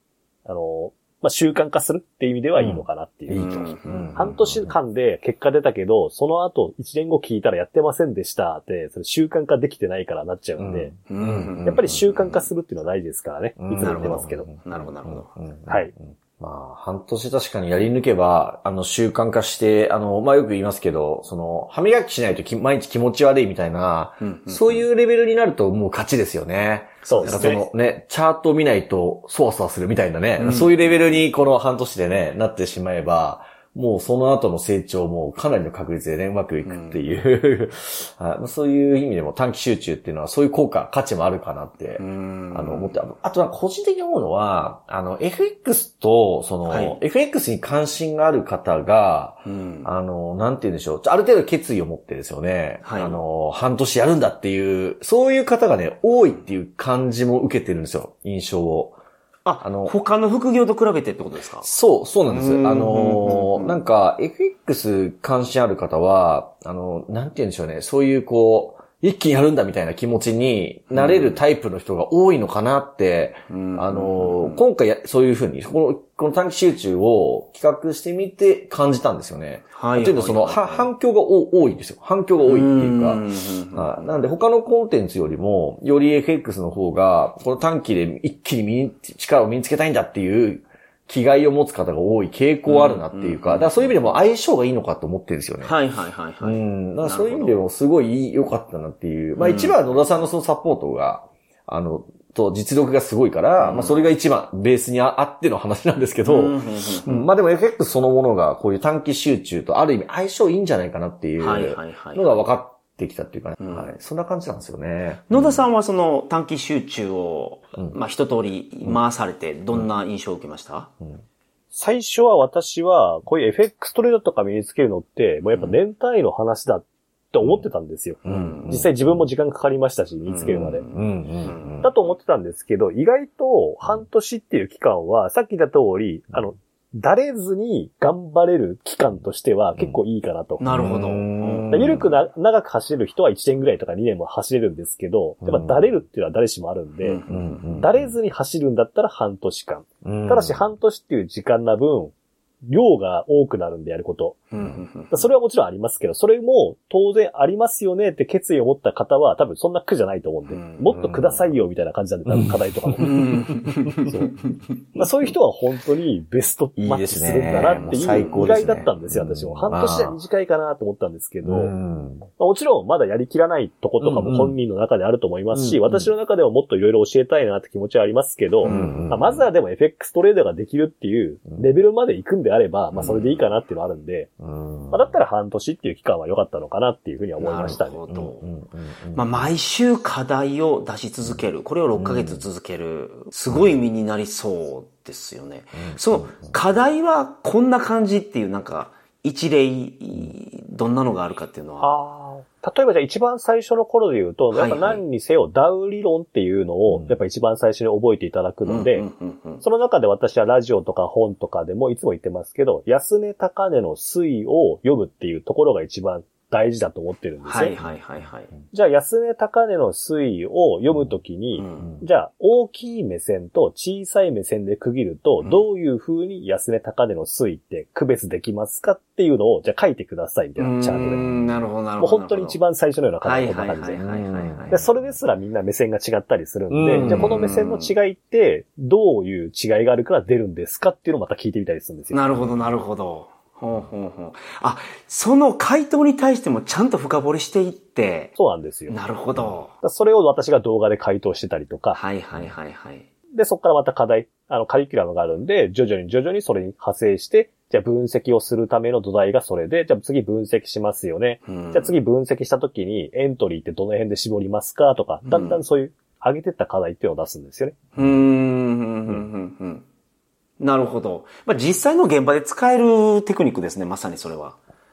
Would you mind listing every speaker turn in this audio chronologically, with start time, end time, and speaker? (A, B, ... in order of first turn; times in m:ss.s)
0:00.4-0:03.5 A
0:02.6-0:04.7 B
0:03.3-0:04.2 C
0:04.1-0:10.9 A
0:10.6-0:12.1 B
0:11.1-0:12.4 C
0:11.6-0:14.5 A
0:13.6-0:59.0 B
0:13.8-0:15.3 C
0:15.7-0:15.9 A
0:24.2-0:24.8 C
0:27.0-0:27.6 C
0:27.0-0:27.6 A
0:30.4-0:31.2 C
0:36.6-0:37.0 C
0:42.0-0:42.9 C
0:46.7-0:47.0 C
0:49.4-0:49.9 C
0:52.8-0:53.2 C
0:59.4-1:01.7 C
0:59.6-0:59.9 B
1:01.6-1:35.7 B
1:02.3-1:03.8 C
1:10.9-1:11.4 C
1:13.5-1:14.6 C
1:19.7-1:20.9 C
1:22.4-1:24.1 C
1:32.6-1:34.2 C
1:35.6-1:37.6 C
1:36.4-1:55.7 B
1:39.4-1:39.8 C
1:43.6-1:44.1 C
1:46.2-1:47.3 C
1:51.4-1:52.4 C
1:53.6-1:54.0 C
1:55.3-2:00.9 C
2:01.7-2:10.8 A
2:08.2-2:09.3 B
2:08.2-2:08.8 C
2:10.2-2:11.8 C
2:10.9-2:11.9 B
2:11.8-2:20.7 A
2:20.6-2:21.9 C
2:20.7-2:22.1 B
2:21.7-2:27.2 A
2:25.4-2:26.0 B
2:27.0-2:27.8 C
2:27.3-2:28.2 B
2:27.8-2:34.4 A
2:30.0-2:30.7 B
2:34.5-2:35.2 C
2:35.1-2:43.2 A
2:40.5-2:40.9 C
2:40.9-2:41.5 B
2:42.2-2:43.3 B
2:43.0-2:44.3 C
2:44.1-2:44.3 A
2:44.9-2:51.7 A
2:46.8-2:50.2 B
2:47.8-2:48.4 C
2:51.4-2:52.3 B
2:52.4-3:04.3 A
2:54.0-2:54.6 B
2:55.5-2:56.1 B
2:58.6-2:59.0 C
2:58.6-2:59.5 B
3:02.9-3:03.4 B
3:03.0-3:03.3 C
3:04.4-3:05.2 B
3:04.9-3:08.0 A
3:07.4-3:08.4 C
3:07.6-3:09.5 B
3:09.1-3:21.9 C
3:12.0-3:12.4 B
3:15.8-3:16.5 B
3:21.8-3:29.1 A
3:24.5-3:25.0 C
3:26.9-3:27.2 B
3:28.6-3:29.6 C
3:29.6-3:37.8 A
3:37.4-3:38.5 C
3:38.7-3:51.2 A
3:41.5-3:41.9 C
3:50.6-3:52.6 C
3:52.0-3:54.0 A
3:53.2-3:54.8 C
3:54.0-3:55.1 B
3:54.7-4:02.2 A
3:56.7-3:57.6 B
3:56.9-3:57.9 C
4:02.1-4:08.3 C
4:08.4-4:09.0 A
4:08.9-4:09.7 C
4:09.8-4:12.0 A
4:11.9-4:13.0 C
4:13.3-4:27.8 A
4:21.5-4:21.9 C
4:25.2-4:25.6 C
4:28.0-4:29.8 C
4:30.6-4:34.6 C